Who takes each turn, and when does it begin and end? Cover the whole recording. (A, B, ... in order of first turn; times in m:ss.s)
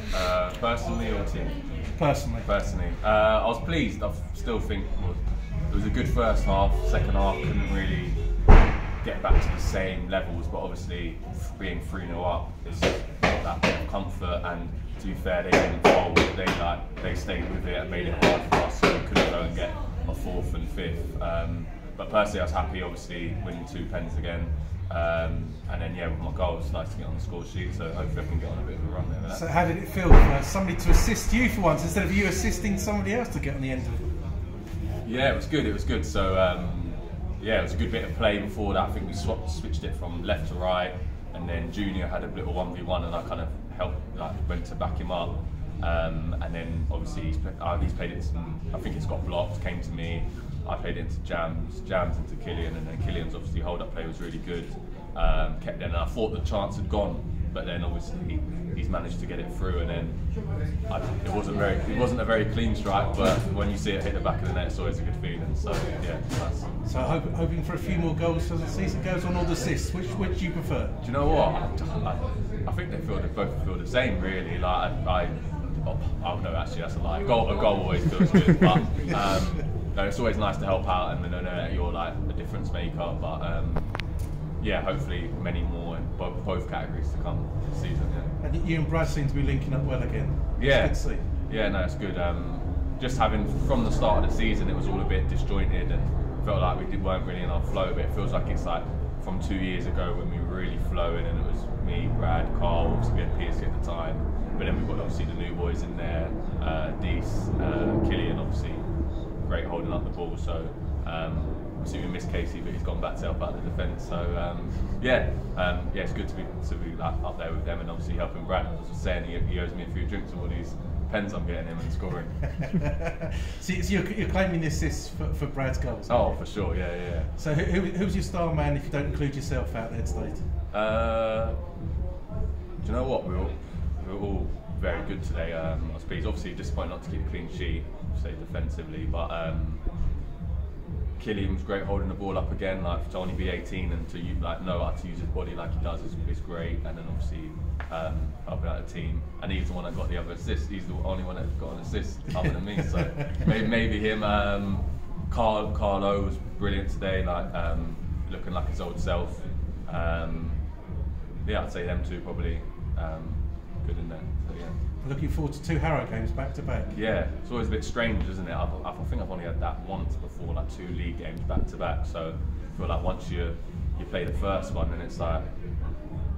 0:00.1-0:29.5 A
0:01.9-0:02.5 B
0:29.3-0:34.4 B
0:35.0-1:06.7 A
1:06.8-1:11.0 B
1:11.0-1:28.3 A
1:28.4-1:31.2 B
1:30.6-2:02.9 A
2:03.6-2:10.4 B
2:06.1-2:07.4 A
2:10.1-2:11.6 A
2:12.8-2:19.8 A
2:21.2-2:40.9 A
2:41.4-2:44.8 A
2:45.0-2:46.9 B
2:46.9-2:55.4 A